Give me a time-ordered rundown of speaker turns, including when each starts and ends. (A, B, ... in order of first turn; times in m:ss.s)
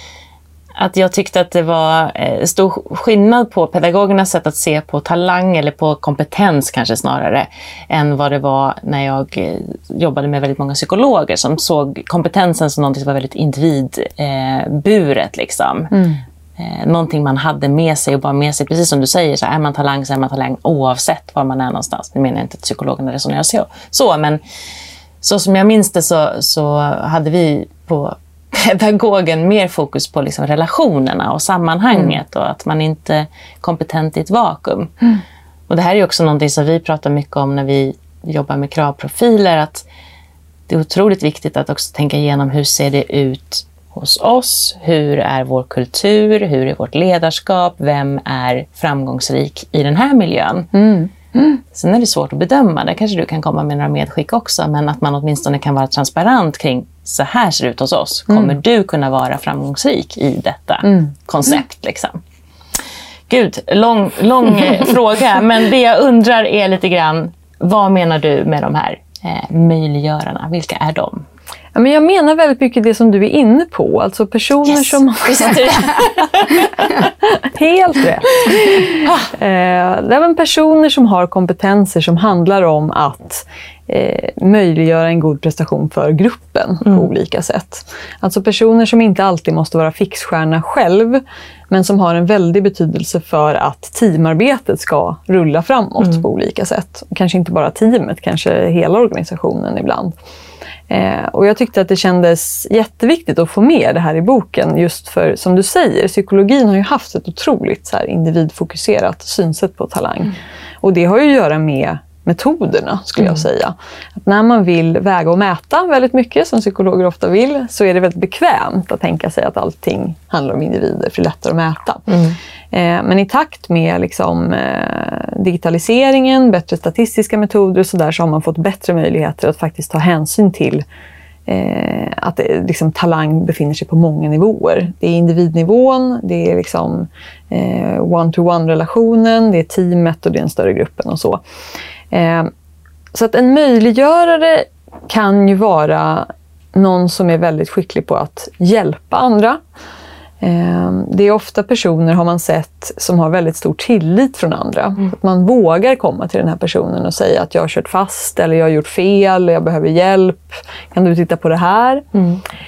0:00.8-0:16.0 A
0:15.9-0:16.2 B
0:16.6-0:24.4 A
0:25.2-0:35.1 A
0:35.7-0:39.8 A
0:40.7-0:50.7 A
0:50.7-0:51.6 B
0:51.7-1:02.2 A
1:03.3-1:11.2 A
1:11.8-1:15.6 B
1:14.7-1:17.0 A
1:17.2-1:40.1 B
1:40.9-2:02.1 B
2:02.1-2:02.4 A
2:02.7-2:10.8 B
2:11.5-2:21.4 B
2:22.1-2:22.5 B
2:23.1-2:29.6 B
2:30.4-2:42.1 B